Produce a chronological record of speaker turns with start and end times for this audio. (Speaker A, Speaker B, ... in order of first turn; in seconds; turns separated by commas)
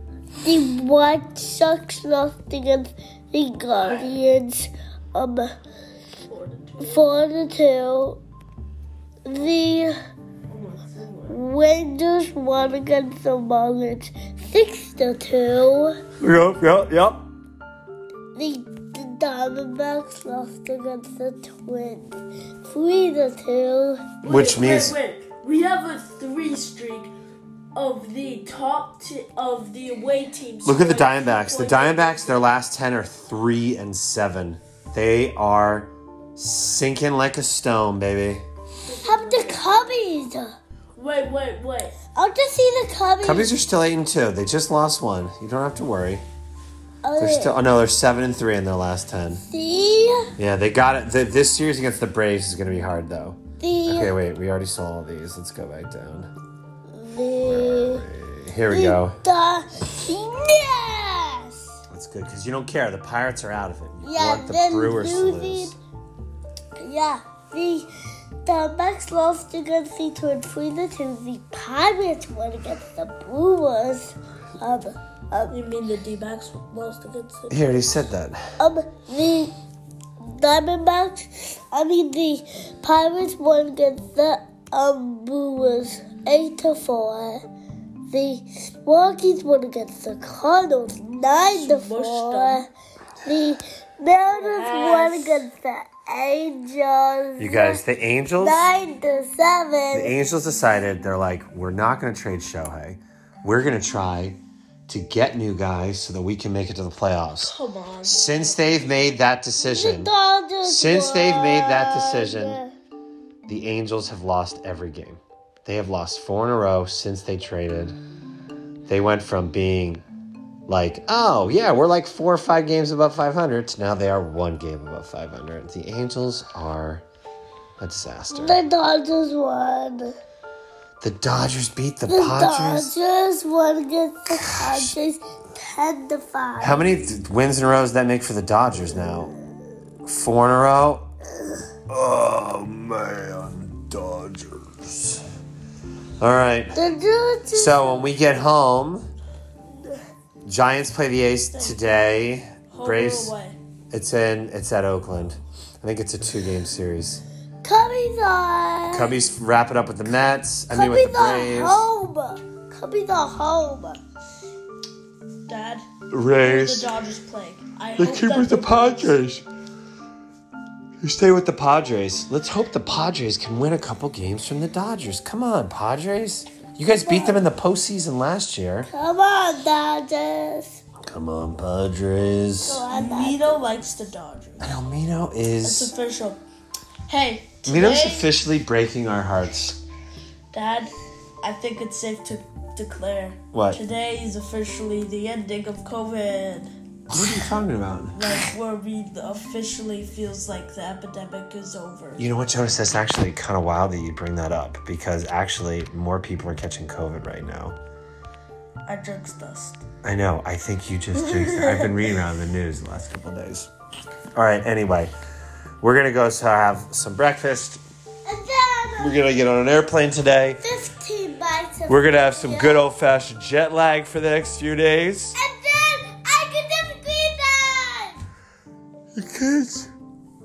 Speaker A: 0.4-5.5, Speaker B: 6.3-7.1, Speaker A: 6.8-8.2, Speaker A: 9.3-9.9, Speaker B: 10.5-11.4, Speaker A: 11.3-16.0, Speaker C: 16.2-17.3, Speaker A: 18.4-24.1, Speaker B: 24.2-27.1, Speaker C: 24.2-25.0, Speaker B: 27.8-32.5, Speaker C: 30.6-38.5, Speaker B: 38.9-39.8, Speaker A: 39.0-40.5, Speaker B: 41.0-42.0, Speaker A: 42.1-43.5, Speaker C: 43.2-46.2, Speaker A: 47.0-47.6, Speaker C: 47.2-49.4, Speaker A: 49.4-50.3, Speaker C: 50.4-56.3, Speaker A: 53.6-54.2, Speaker A: 56.9-58.0, Speaker C: 57.4-59.2, Speaker A: 58.7-61.7, Speaker C: 61.9-65.8, Speaker A: 64.0-65.8, Speaker A: 66.8-67.9, Speaker A: 68.4-75.6, Speaker B: 75.5-78.0, Speaker C: 77.5-78.4, Speaker A: 78.6-79.5, Speaker A: 80.2-87.4, Speaker A: 88.1-92.7, Speaker B: 91.4-92.7, Speaker A: 93.2-97.8, Speaker B: 94.3-95.5, Speaker C: 97.4-98.7, Speaker A: 98.4-100.2, Speaker C: 99.9-110.1, Speaker B: 107.4-108.4, Speaker A: 109.6-112.7, Speaker C: 110.6-112.6, Speaker C: 113.5-118.0, Speaker C: 118.9-120.0, Speaker C: 120.7-127.0, Speaker C: 127.8-128.6, Speaker A: 128.3-130.2, Speaker C: 131.0-132.9, Speaker A: 132.1-136.9, Speaker C: 134.4-135.0, Speaker C: 136.6-139.3, Speaker C: 140.1-141.1, Speaker C: 141.9-145.2, Speaker C: 146.2-146.8, Speaker A: 146.7-148.1, Speaker C: 147.5-149.1, Speaker C: 150.4-153.3, Speaker B: 151.5-151.8, Speaker B: 152.7-153.6, Speaker C: 153.9-157.2, Speaker A: 157.6-159.2, Speaker C: 158.9-161.9, Speaker A: 160.7-164.0, Speaker B: 165.5-165.9, Speaker C: 166.1-166.9, Speaker B: 166.4-169.2, Speaker C: 168.0-169.4, Speaker C: 171.0-178.9, Speaker A: 176.9-177.4, Speaker A: 178.9-180.8, Speaker C: 181.0-182.8, Speaker A: 182.6-183.4, Speaker B: 182.8-184.8, Speaker C: 184.6-185.9, Speaker B: 185.6-186.4, Speaker B: 187.1-188.3, Speaker C: 187.7-189.8, Speaker B: 190.5-196.7, Speaker C: 193.5-193.8, Speaker C: 197.1-198.3, Speaker B: 198.1-202.3, Speaker C: 202.2-207.8, Speaker B: 208.9-209.8, Speaker C: 210.0-213.7, Speaker B: 211.2-212.1, Speaker C: 214.3-215.1, Speaker C: 215.8-217.8, Speaker A: 218.2-219.2, Speaker C: 219.0-220.6, Speaker A: 220.6-222.9, Speaker C: 221.9-225.4, Speaker A: 225.3-228.2, Speaker C: 229.2-229.9